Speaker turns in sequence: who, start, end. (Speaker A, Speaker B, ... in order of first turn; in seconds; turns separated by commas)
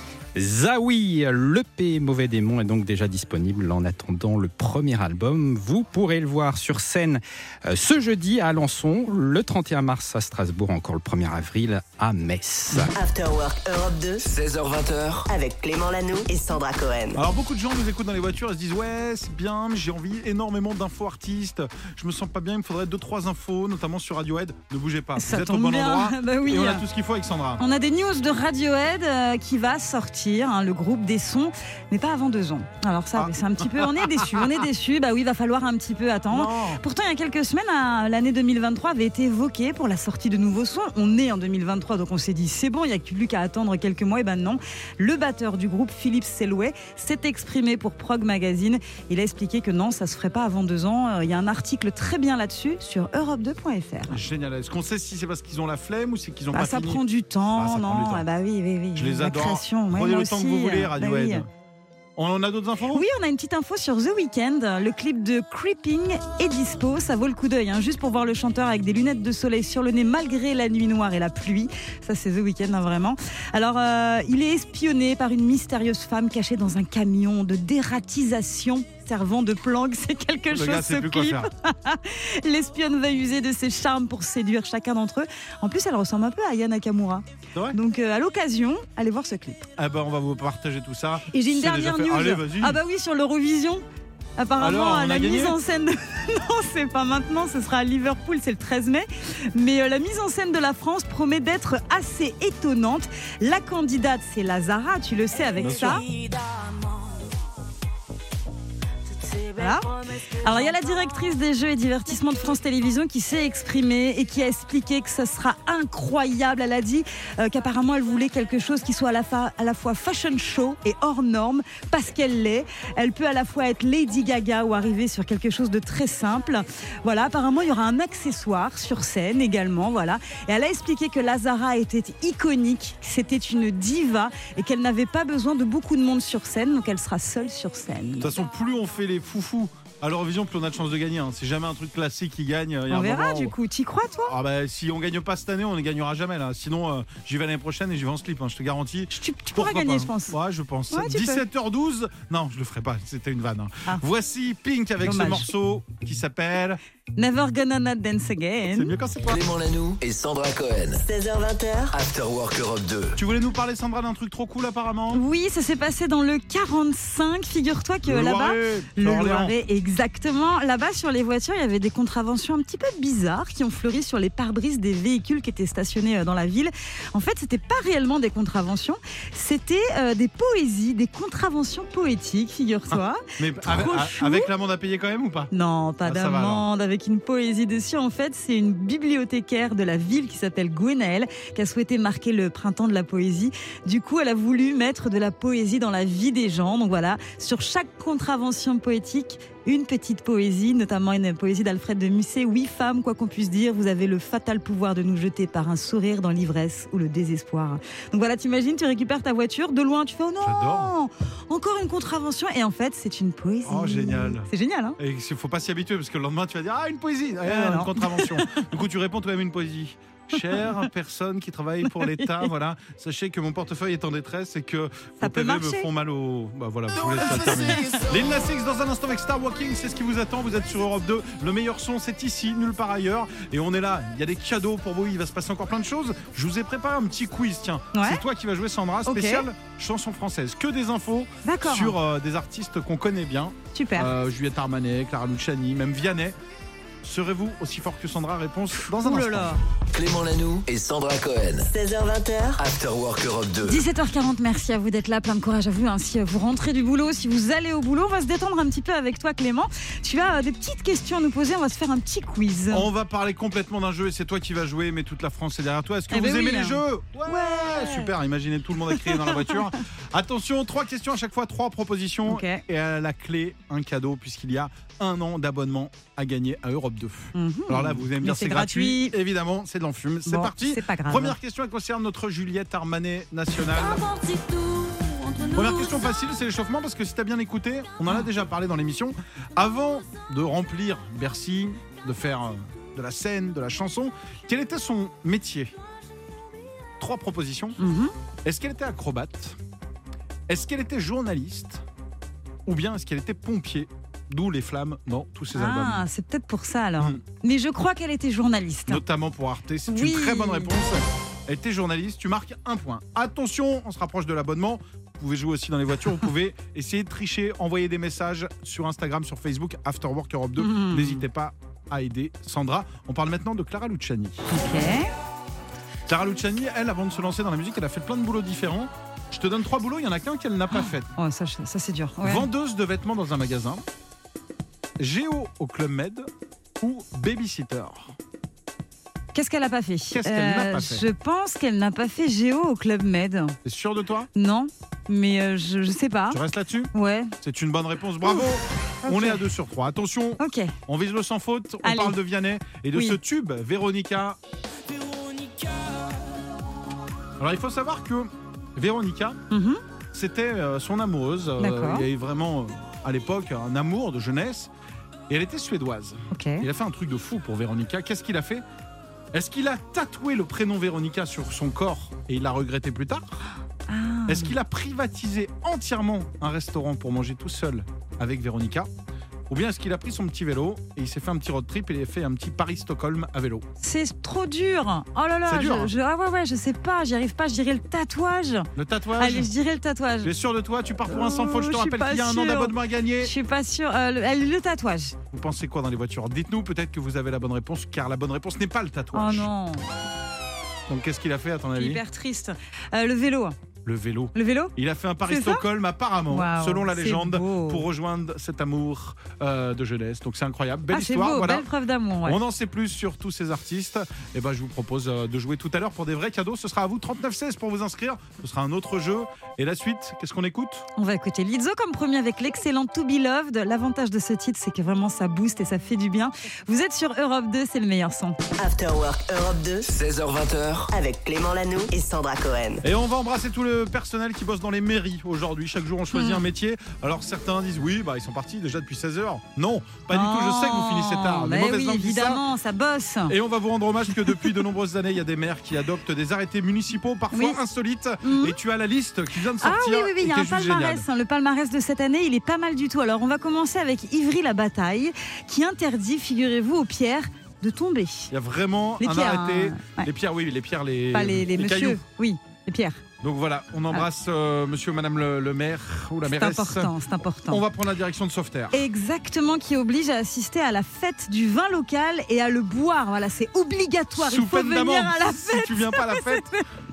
Speaker A: 0.3-12.9, Speaker B: 12.9-14.2, Speaker C: 14.2-15.3, Speaker B: 15.3-17.2, Speaker D: 17.1-27.6, Speaker E: 25.2-26.8, Speaker E: 27.6-54.2, Speaker D: 33.1-34.6, Speaker D: 36.3-36.8, Speaker D: 54.1-57.0, Speaker E: 56.5-61.4, Speaker D: 57.5-58.2, Speaker D: 58.9-61.5, Speaker D: 62.2-63.0, Speaker E: 62.9-89.7, Speaker D: 80.5-81.5, Speaker D: 89.8-92.8, Speaker E: 91.3-93.8, Speaker E: 94.4-106.1, Speaker D: 94.6-95.6, Speaker D: 105.6-106.0, Speaker E: 109.5-138.3, Speaker D: 138.2-143.5, Speaker E: 142.9-144.3, Speaker D: 144.3-156.8, Speaker E: 149.1-150.3, Speaker E: 150.9-151.4, Speaker E: 155.0-155.5, Speaker E: 157.2-158.9, Speaker D: 158.7-159.4, Speaker C: 159.3-161.0, Speaker B: 161.0-161.9, Speaker C: 161.9-163.2, Speaker D: 163.2-165.2, Speaker E: 165.1-184.5, Speaker D: 168.0-169.5, Speaker D: 182.9-185.5, Speaker E: 185.5-215.0, Speaker D: 186.0-186.7, Speaker D: 210.4-210.9, Speaker D: 213.7-246.3, Speaker E: 217.4-218.6, Speaker E: 221.8-222.5, Speaker E: 225.2-225.9, Speaker E: 227.1-228.0, Speaker E: 237.9-238.2, Speaker E: 239.1-239.4, Speaker E: 241.4-242.0, Speaker E: 243.7-244.1, Speaker D: 247.0-249.6, Speaker E: 248.8-249.6, Speaker C: 249.9-251.7, Speaker B: 251.7-252.6, Speaker C: 252.6-253.8, Speaker E: 253.6-262.9, Speaker D: 262.7-284.1, Speaker E: 266.1-268.1, Speaker E: 268.9-269.5, Speaker E: 272.2-272.6, Speaker E: 277.3-279.1, Speaker E: 280.2-281.4, Speaker D: 285.4-295.7, Speaker D: 297.0-297.8, Speaker E: 297.8-298.1, Speaker D: 298.4-299.6, Speaker D: 300.5-301.8, Speaker D: 302.6-306.1, Speaker E: 305.5-309.0, Speaker D: 308.9-324.4, Speaker E: 309.9-310.7, Speaker E: 320.6-321.2, Speaker E: 324.5-325.1, Speaker D: 326.1-331.1, Speaker E: 330.7-332.5, Speaker D: 332.2-333.8, Speaker D: 335.0-338.1, Speaker E: 339.3-343.6, Speaker D: 340.1-341.0, Speaker D: 343.6-344.3, Speaker E: 344.3-346.4, Speaker D: 346.3-354.4, Speaker E: 346.9-347.3, Speaker E: 349.0-349.4, Speaker E: 350.4-350.7, Speaker E: 351.8-352.2, Speaker D: 357.4-359.4, Speaker E: 359.5-359.8, Speaker D: 360.1-364.7, Speaker E: 361.6-362.1, Speaker D: 365.3-368.6, Speaker E: 366.3-366.6, Speaker D: 369.3-373.3, Speaker E: 373.9-374.5, Speaker D: 374.3-378.9, Speaker D: 379.5-383.6, Speaker E: 383.8-390.3, Speaker D: 385.4-385.9, Speaker D: 388.7-389.5, Speaker D: 390.2-393.3, Speaker E: 391.1-395.2, Speaker D: 395.3-399.5, Speaker E: 399.1-399.9, Speaker D: 400.9-402.0, Speaker E: 401.7-403.6, Speaker D: 403.8-411.7, Speaker E: 404.3-404.7, Speaker E: 405.3-405.6, Speaker E: 406.3-407.9, Speaker E: 410.9-412.4, Speaker D: 412.2-420.9, Speaker E: 421.0-428.4, Speaker B: 428.6-429.9, Speaker C: 429.9-430.9, Speaker B: 430.9-432.8, Speaker D: 432.8-442.4, Speaker E: 436.1-436.4, Speaker E: 440.1-443.3, Speaker D: 443.3-451.1, Speaker E: 447.3-447.6, Speaker E: 448.2-448.6, Speaker E: 449.6-458.3, Speaker D: 458.3-462.0, Speaker E: 459.0-460.1, Speaker E: 461.1-463.0, Speaker D: 463.2-468.8, Speaker E: 466.2-467.6, Speaker E: 468.7-476.6, Speaker D: 474.1-476.4